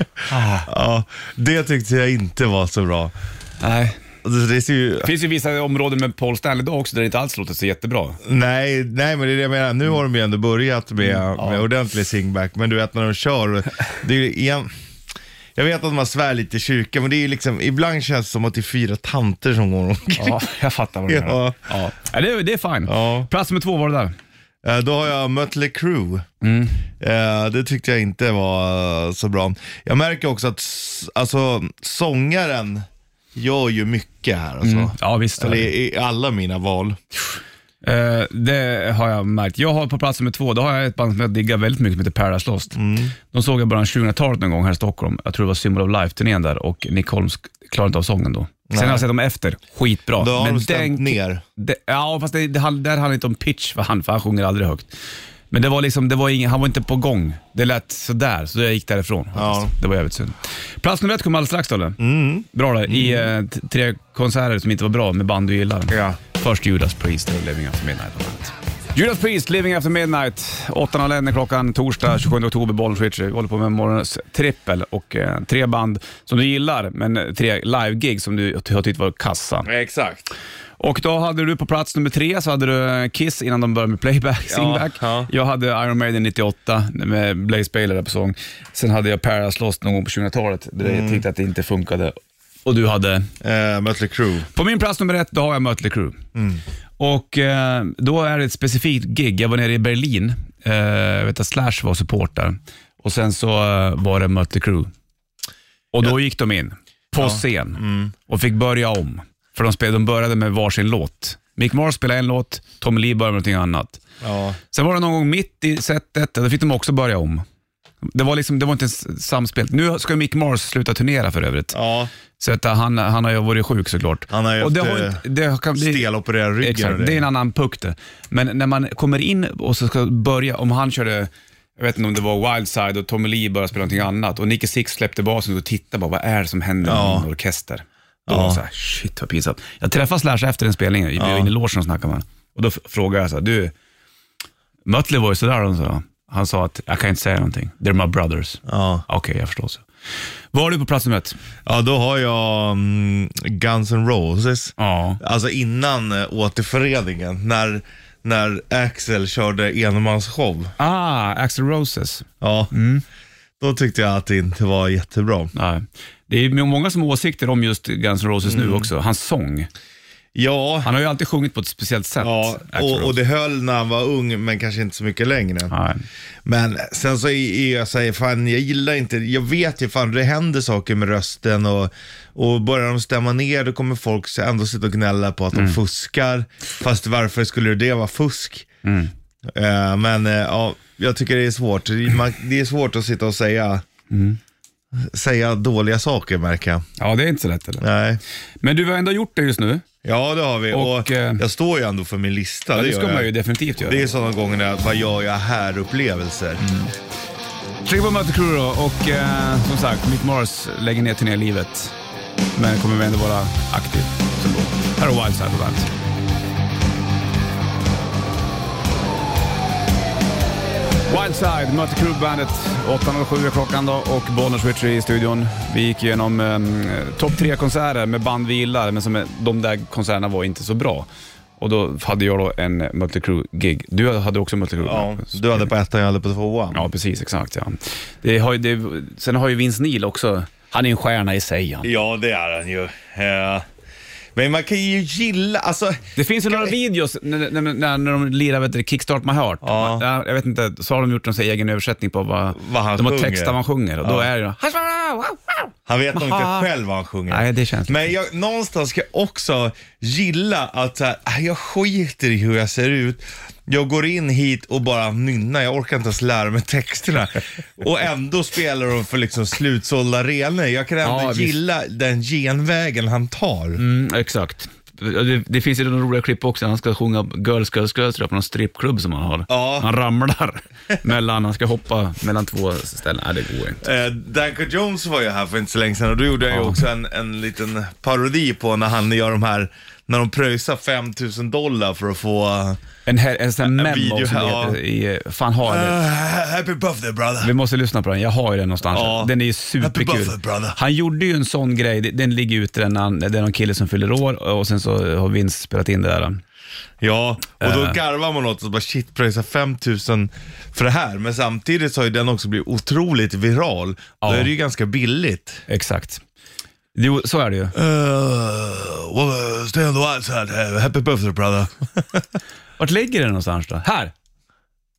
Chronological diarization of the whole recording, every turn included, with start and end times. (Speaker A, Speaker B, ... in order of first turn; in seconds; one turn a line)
Speaker A: 0.3-0.7
Speaker B: 0.6-3.1
Speaker A: 3.6-4.0
Speaker B: 4.2-5.1
Speaker A: 5.0-8.2
Speaker B: 8.2-14.7
Speaker A: 11.1-11.6
Speaker B: 15.6-20.4
Speaker A: 20.1-24.1
Speaker B: 21.1-21.6
Speaker B: 22.9-23.3
Speaker B: 24.6-26.2
Speaker A: 26.4-26.8
Speaker B: 27.0-37.0
Speaker A: 34.6-35.7
Speaker A: 37.8-42.8
Speaker B: 42.7-43.1
Speaker A: 43.3-54.9
Speaker B: 48.7-49.0
Speaker B: 50.2-51.4
Speaker A: 55.5-62.0
Speaker B: 59.3-59.7
Speaker B: 62.0-63.3
Speaker A: 62.5-79.7
Speaker B: 65.9-66.2
Speaker B: 79.6-80.3
Speaker A: 80.8-93.3
Speaker B: 84.5-85.3
Speaker B: 90.8-91.2
Speaker B: 93.4-94.5
Speaker A: 94.5-96.2
Speaker B: 96.3-96.6
Speaker A: 97.0-104.9
Speaker A: 105.9-114.0
Speaker B: 107.2-108.1
Speaker B: 114.2-114.6
Speaker A: 114.7-117.4
Speaker A: 118.0-121.8
Speaker B: 121.7-122.1
Speaker A: 122.4-126.0
Speaker B: 124.3-125.2
Speaker B: 125.7-127.2
Speaker A: 126.6-143.7
Speaker B: 136.8-137.3
Speaker B: 138.3-138.6
Speaker B: 141.2-141.5
Speaker A: 144.8-149.8
Speaker B: 148.7-149.0
Speaker A: 150.5-151.3
Speaker B: 151.7-160.7
Speaker A: 154.8-155.2
Speaker A: 160.8-163.0
Speaker B: 162.4-162.7
Speaker B: 163.6-165.5
Speaker A: 165.5-169.7
Speaker B: 168.4-168.9
Speaker B: 170.3-170.9
Speaker A: 170.8-173.2
Speaker B: 172.2-175.7
Speaker A: 175.7-176.0
Speaker B: 176.4-188.7
Speaker A: 185.5-185.8
Speaker A: 188.8-189.1
Speaker B: 189.5-193.8
Speaker A: 194.1-194.4
Speaker B: 194.9-196.8
Speaker A: 197.0-197.8
Speaker B: 197.8-198.2
Speaker A: 198.6-199.8
Speaker B: 200.0-206.7
Speaker A: 200.7-201.4
Speaker A: 202.7-204.0
Speaker A: 207.8-211.9
Speaker A: 212.5-215.9
Speaker A: 221.1-231.1
Speaker A: 231.6-235.7
Speaker B: 234.8-236.9
Speaker A: 236.7-241.9
Speaker B: 241.8-243.6
Speaker B: 244.3-246.7
Speaker A: 246.2-255.6
Speaker B: 249.6-250.0
Speaker B: 252.5-254.3
Speaker B: 255.9-273.8
Speaker A: 256.1-256.7
Speaker A: 257.3-258.1
Speaker A: 271.0-271.6
Speaker A: 273.8-283.8
Speaker B: 279.5-279.9
Speaker B: 283.8-292.8
Speaker A: 286.5-286.8
Speaker A: 293.1-296.0
Speaker B: 293.6-294.8
Speaker B: 295.6-297.5
Speaker A: 297.4-306.4
Speaker B: 298.9-300.8
Speaker B: 307.0-315.6
Speaker A: 307.6-308.0
Speaker A: 314.2-314.5
Speaker A: 315.7-316.2
Speaker A: 316.9-317.7
Speaker B: 317.7-322.2
Speaker A: 322.8-324.1